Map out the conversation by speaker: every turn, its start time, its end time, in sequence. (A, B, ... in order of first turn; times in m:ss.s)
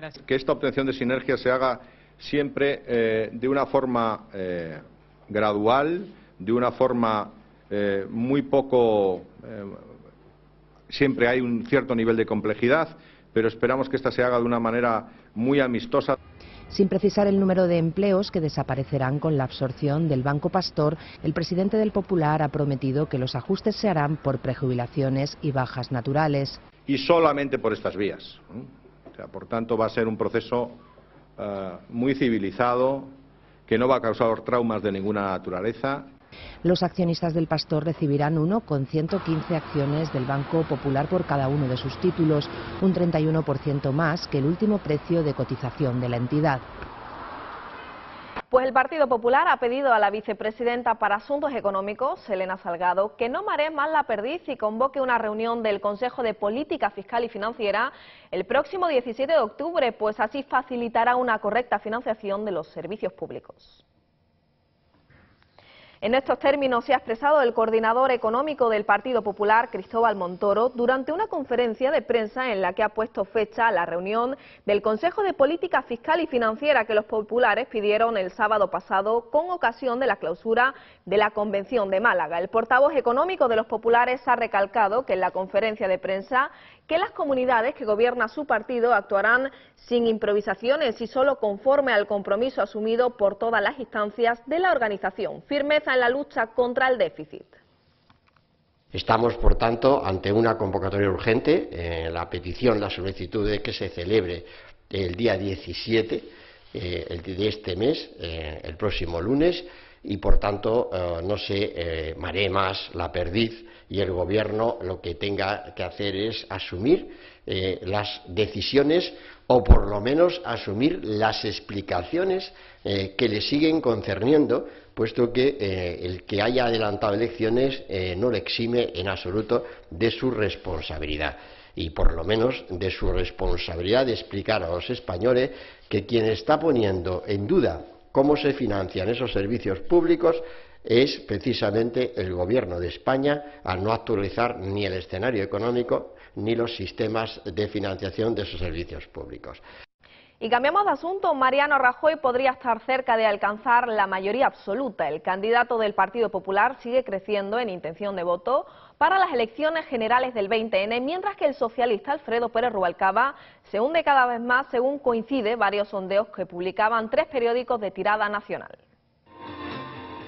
0:00.2-0:09.8 A
0:10.9-0:16.2 A
0:16.7-0:26.6 B
0:26.9-0:30.8 A
0:31.4-0:33.1 A
0:33.7-0:36.1 A
0:36.6-0:46.6 B
0:48.5-1:03.8 C
1:06.0-1:37.6 C
1:38.9-2:29.6 D
2:30.4-2:48.8 C